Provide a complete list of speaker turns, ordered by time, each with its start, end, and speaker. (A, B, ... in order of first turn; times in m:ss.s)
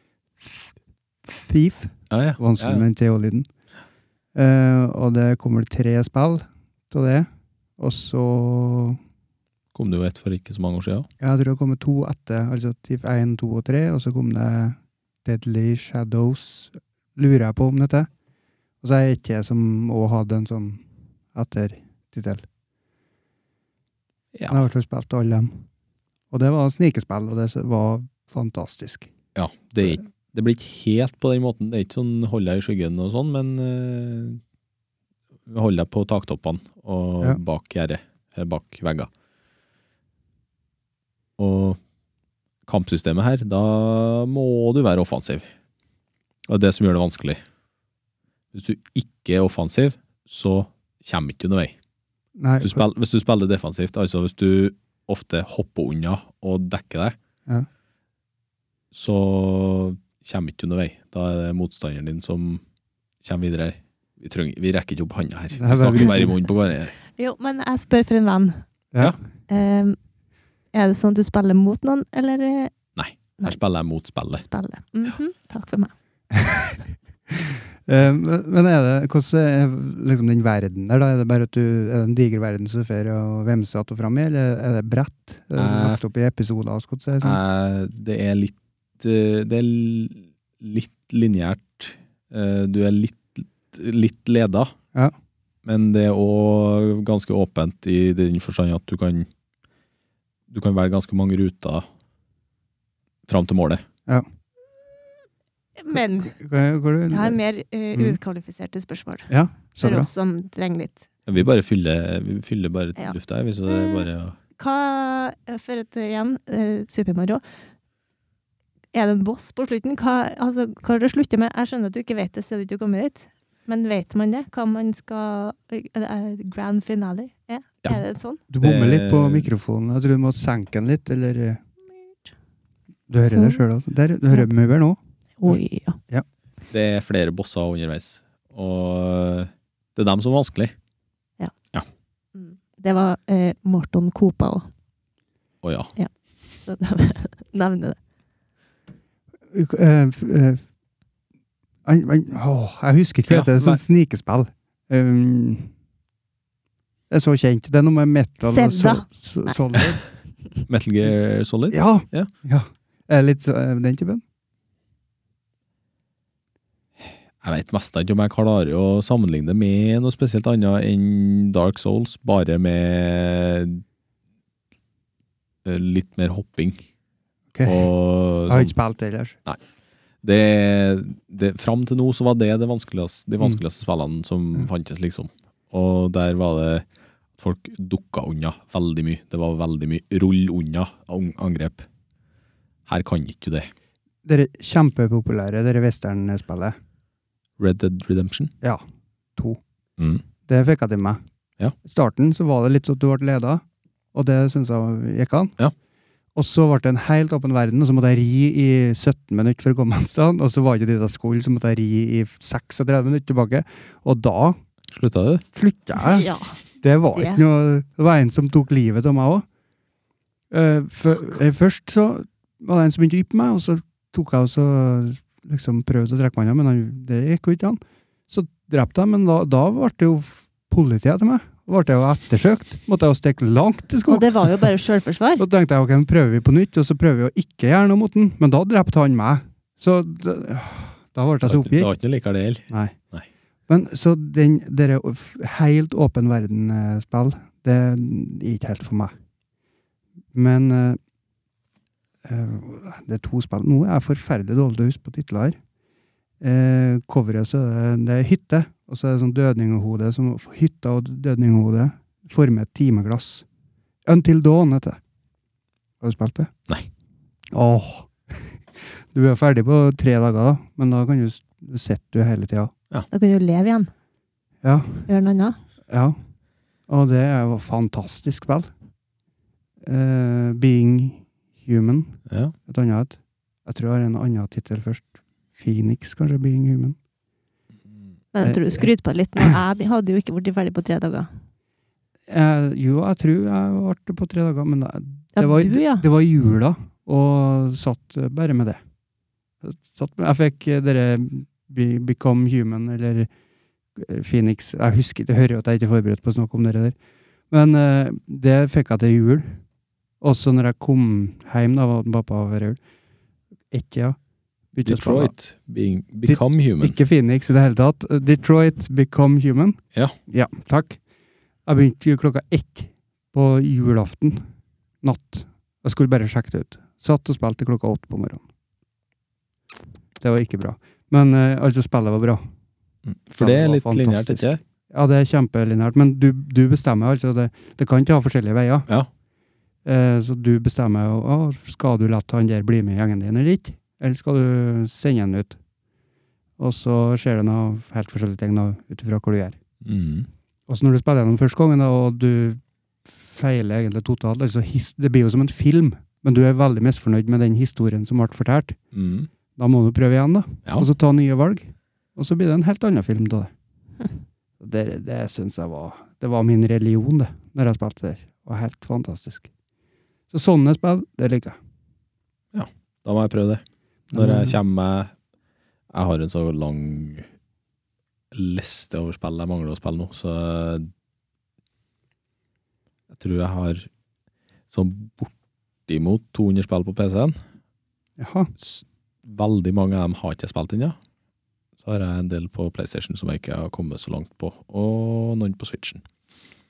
0:00.4-0:00.7 A
0:01.2-0:03.5 A
0:02.1-0:02.9 B
0:04.4-0:09.0 A
0:09.7-0:11.1 B
0:11.2-0:18.1 A
0:18.8-0:22.5 A
0:24.4-0:24.6 B
0:24.5-0:25.6 A
0:26.3-0:29.1 A
0:29.4-0:34.4 B
0:35.5-0:39.1 B
0:41.4-0:41.8 B
0:42.7-0:45.5 B
0:46.5-0:47.4 B
0:48.5-0:51.8 B
0:52.4-0:52.8 A
0:52.6-0:57.2 B
0:58.9-1:02.6 B
1:03.2-1:06.9 B
1:05.5-1:06.3 A
1:07.1-1:08.6 C
1:09.5-1:10.0 C
1:10.7-1:12.8 C
1:13.0-1:14.4 B
1:14.4-1:15.9 C
1:16.3-1:27.4 A
1:25.6-1:26.0 B
1:27.2-1:34.7 B
1:35.6-1:39.3 B
1:40.5-1:41.8 B
1:43.3-1:43.8 B
1:45.8-1:46.4 C
1:46.0-1:47.4 A
1:47.1-1:51.0 C
1:49.3-1:50.1 A
1:51.2-1:54.4 B
1:53.7-1:54.1 C
1:54.6-1:57.4 C
1:58.9-2:08.4 C
2:08.5-2:11.6 A
2:08.6-2:09.5 B
2:11.9-2:12.3 C
2:13.1-2:16.2 A
2:13.2-2:13.6 C
2:15.4-2:16.0 C
2:16.7-2:20.8 B
2:22.4-2:24.7 C
2:25.6-2:25.9 B
2:26.0-2:28.0 C
2:29.5-2:30.6 A
2:31.8-2:35.7 A
2:33.3-2:33.8 B
2:37.1-2:40.0 A
2:38.5-2:39.5 C
2:40.7-2:42.3 B
2:41.7-2:44.2 A
2:47.4-2:53.8 B
2:55.6-2:56.8 B
2:57.5-2:57.9 A
2:57.6-2:58.7 B
2:58.5-2:59.4 A
3:00.2-3:06.8 B
3:07.4-3:11.8 B
3:12.9-3:13.7 B
3:14.2-3:16.8 A
3:17.6-3:18.5 B
3:20.0-3:20.2 B
3:20.5-3:21.2 A
3:21.8-3:25.5 A
3:26.3-3:34.6 A
3:34.9-3:35.4 B
3:35.5-3:36.3 A
3:36.0-3:36.6 C
3:36.8-3:39.5 A
3:37.2-3:37.4 C
3:40.5-3:54.6 A
3:54.1-3:55.4 C
3:55.4-4:01.9 A
4:01.4-4:03.2 B
4:02.7-4:03.0 A
4:03.7-4:09.1 A
4:10.3-4:11.0 A
4:12.2-4:15.6 A
4:16.4-4:23.4 A
4:24.0-4:25.0 A
4:26.0-4:26.5 A
4:27.5-4:32.7 A
4:33.1-4:33.9 C
4:34.6-4:35.1 A
4:35.1-4:35.6 C
4:35.9-4:36.2 A
4:36.9-4:38.7 A
4:39.8-4:47.0 A
4:42.3-4:42.5 B
4:48.3-4:51.3 C
4:48.4-4:48.9 A
4:52.3-4:58.8 A
4:55.4-4:56.0 C
4:59.6-5:03.3 A
5:04.0-5:07.0 A
5:07.5-5:09.6 A
5:10.2-5:12.8 A
5:13.7-5:14.2 A
5:14.7-5:15.3 A
5:14.8-5:17.0 B
5:16.2-5:21.0 A
5:21.7-5:24.5 A
5:25.0-5:28.4 A
5:30.2-5:32.5 A
5:33.0-5:34.6 B
5:33.4-5:38.9 A
5:39.8-5:45.6 A
5:46.6-5:49.6 A
5:49.8-5:50.3 B
5:50.7-5:58.8 A
5:58.9-5:59.3 B
5:59.6-6:03.5 A
6:04.6-6:09.5 A
6:10.3-6:11.6 A
6:12.5-6:13.6 B
6:14.1-6:14.6 A
6:14.1-6:15.1 B
6:15.9-6:17.3 B
6:18.3-6:20.9 B
6:23.1-6:23.9 B
6:24.7-6:25.3 B
6:25.9-6:27.4 B
6:28.2-6:28.5 A
6:28.6-6:31.0 B
6:31.8-6:36.0 B